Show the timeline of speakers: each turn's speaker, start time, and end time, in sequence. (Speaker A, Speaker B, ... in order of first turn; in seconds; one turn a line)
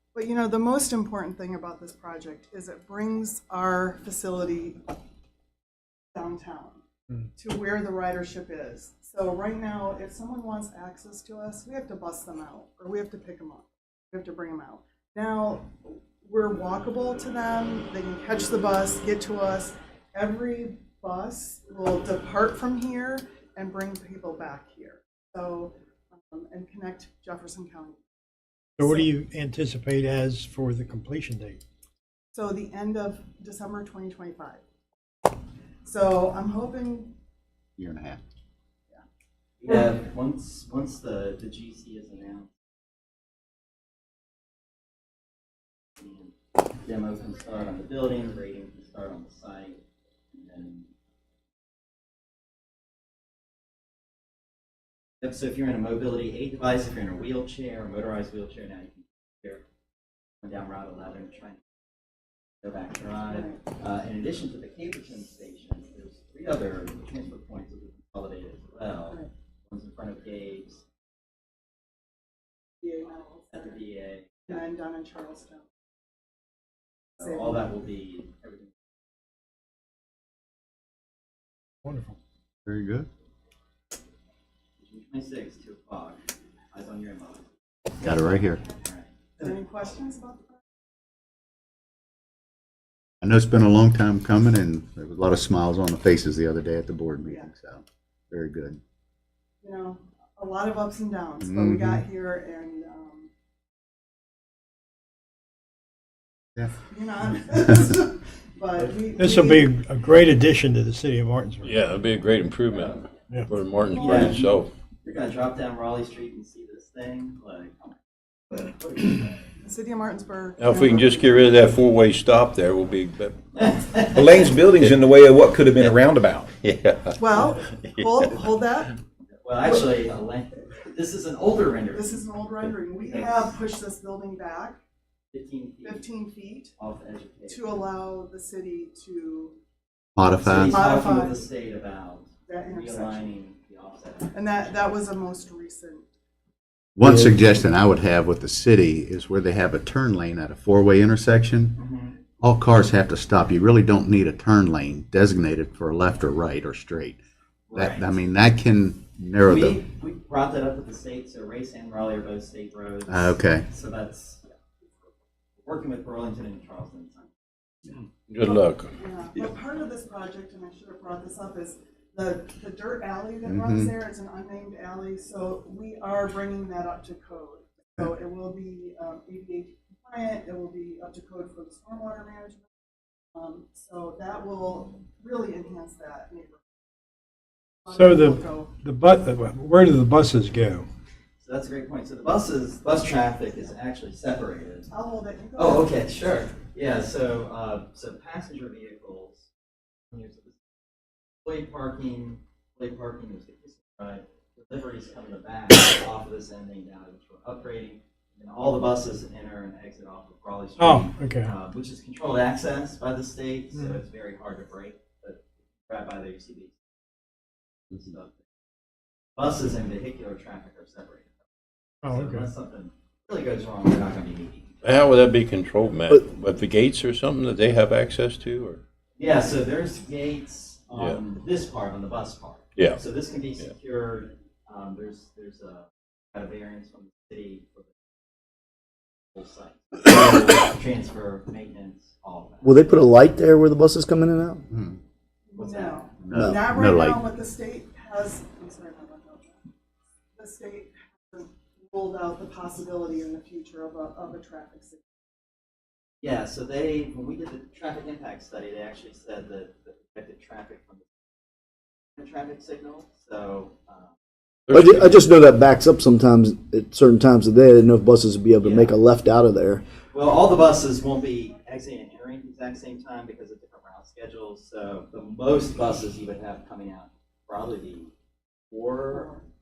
Speaker A: 0.1-4.9
Speaker A: 6.1-6.8
Speaker A: 7.4-28.1
Speaker A: 28.8-29.1
Speaker B: 28.8-31.6
Speaker A: 32.3-34.6
Speaker A: 35.8-37.1
Speaker C: 37.8-38.2
Speaker D: 39.6-42.5
Speaker D: 46.0-49.8
Speaker D: 50.3-50.9
Speaker D: 55.2-59.6
Speaker D: 60.4-61.6
Speaker D: 62.6-70.8
Speaker A: 63.3-63.6
Speaker A: 72.8-73.8
Speaker D: 73.5-74.6
Speaker A: 74.5-75.7
Speaker D: 77.2-78.7
Speaker A: 77.2-77.7
Speaker B: 81.8-82.2
Speaker C: 82.7-83.1
Speaker D: 84.8-86.2
Speaker D: 86.7-87.5
Speaker C: 88.0-88.6
Speaker D: 88.7-89.1
Speaker A: 89.4-90.6
Speaker C: 93.2-98.8
Speaker A: 99.6-103.3
Speaker C: 101.4-102.0
Speaker A: 106.8-109.8
Speaker B: 109.2-111.7
Speaker E: 111.6-114.7
Speaker D: 112.7-113.0
Speaker A: 113.9-114.3
Speaker D: 114.0-114.5
Speaker D: 115.0-118.0
Speaker D: 118.5-119.3
Speaker A: 119.6-121.6
Speaker E: 120.6-123.4
Speaker D: 123.5-124.5
Speaker F: 124.1-126.5
Speaker E: 126.5-128.1
Speaker A: 127.2-128.9
Speaker D: 129.4-132.2
Speaker A: 131.9-134.8
Speaker D: 133.0-133.5
Speaker D: 135.3-136.1
Speaker A: 135.8-136.7
Speaker D: 136.8-137.8
Speaker A: 137.5-139.6
Speaker C: 140.2-140.8
Speaker D: 140.4-144.7
Speaker A: 140.7-141.4
Speaker A: 142.5-143.3
Speaker A: 144.3-146.0
Speaker C: 147.0-151.8
Speaker G: 147.0-147.3
Speaker D: 151.8-152.2
Speaker C: 152.4-157.2
Speaker D: 157.7-158.1
Speaker C: 157.7-159.8
Speaker D: 159.4-164.5
Speaker C: 163.1-163.7
Speaker D: 165.6-167.3
Speaker E: 168.3-168.9
Speaker A: 168.4-182.7
Speaker C: 173.4-173.9
Speaker A: 183.3-186.7
Speaker A: 187.8-188.7
Speaker B: 187.9-190.8
Speaker D: 191.4-194.9
Speaker A: 194.9-195.9
Speaker D: 195.6-199.5
Speaker D: 200.1-200.6
Speaker D: 201.4-216.8
Speaker B: 210.8-211.5
Speaker D: 217.9-218.4
Speaker D: 219.4-221.4
Speaker B: 222.0-222.5
Speaker D: 222.0-225.1
Speaker E: 224.8-228.8
Speaker D: 229.2-237.9
Speaker E: 230.9-231.2
Speaker E: 232.8-233.0
Speaker D: 239.3-243.0
Speaker G: 242.6-244.7
Speaker C: 244.7-245.0
Speaker A: 245.5-249.6
Speaker D: 245.6-246.0
Speaker C: 246.2-247.2
Speaker G: 246.3-246.6
Speaker A: 250.3-255.0
Speaker D: 256.2-261.1
Speaker D: 262.2-264.1
Speaker E: 264.6-265.2
Speaker G: 264.7-269.8
Speaker D: 268.6-268.9
Speaker D: 270.1-278.1
Speaker D: 278.7-279.3
Speaker A: 279.1-279.4